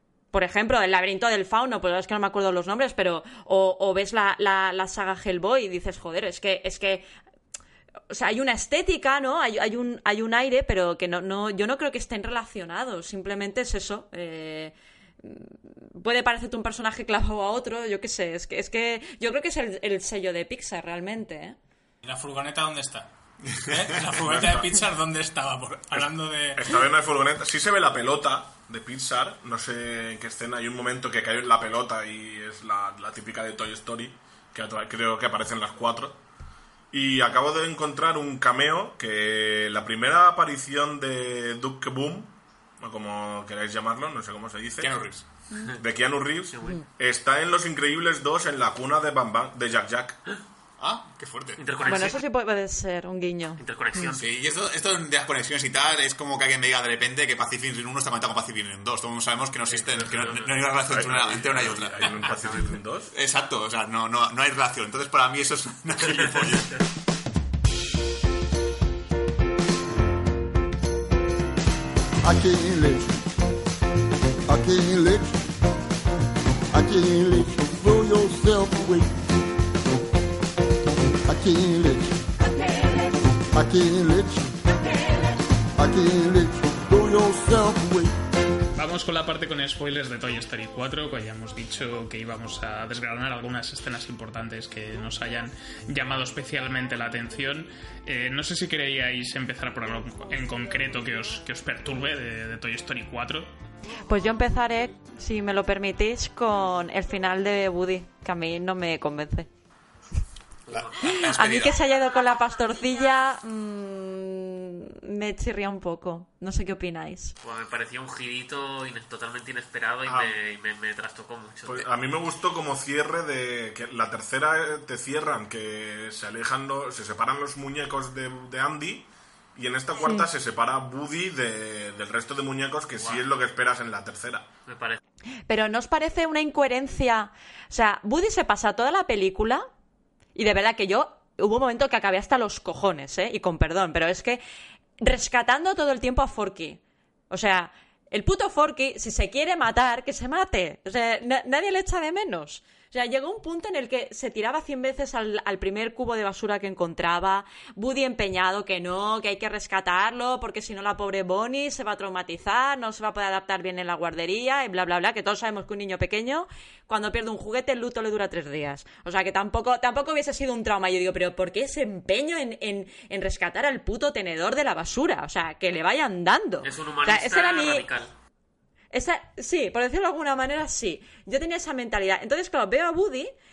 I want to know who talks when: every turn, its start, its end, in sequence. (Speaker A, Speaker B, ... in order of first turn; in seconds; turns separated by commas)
Speaker A: 0.3-7.0, Speaker A: 8.1-21.6, Speaker B: 22.0-23.1, Speaker B: 23.6-26.7, Speaker C: 24.2-24.8, Speaker C: 25.9-36.2, Speaker C: 36.9-44.9, Speaker D: 44.8-45.2, Speaker C: 45.8-50.2, Speaker E: 46.5-46.8, Speaker D: 50.8-51.6, Speaker E: 51.6-52.2, Speaker A: 51.9-53.6, Speaker E: 53.6-54.3, Speaker D: 54.1-62.4, Speaker C: 59.7-60.2, Speaker E: 59.7-60.5, Speaker C: 60.8-63.1, Speaker E: 61.6-62.8, Speaker D: 63.1-66.8, Speaker F: 72.2-73.1, Speaker F: 74.5-75.3, Speaker F: 76.7-79.2, Speaker F: 81.2-82.1, Speaker F: 83.5-84.6, Speaker F: 85.8-88.2, Speaker G: 88.7-103.5, Speaker A: 104.0-109.5, Speaker E: 110.7-111.1, Speaker D: 110.7-111.8, Speaker A: 111.1-117.3, Speaker E: 117.4-121.9, Speaker C: 120.0-120.3, Speaker C: 121.7-134.5, Speaker A: 130.0-130.2, Speaker E: 132.9-133.2, Speaker E: 134.7-135.0, Speaker A: 135.5-139.6, Speaker A: 140.3-144.4, Speaker A: 145.0-146.8, Speaker A: 147.3-177.9, Speaker E: 176.6-178.1, Speaker A: 178.9-183.3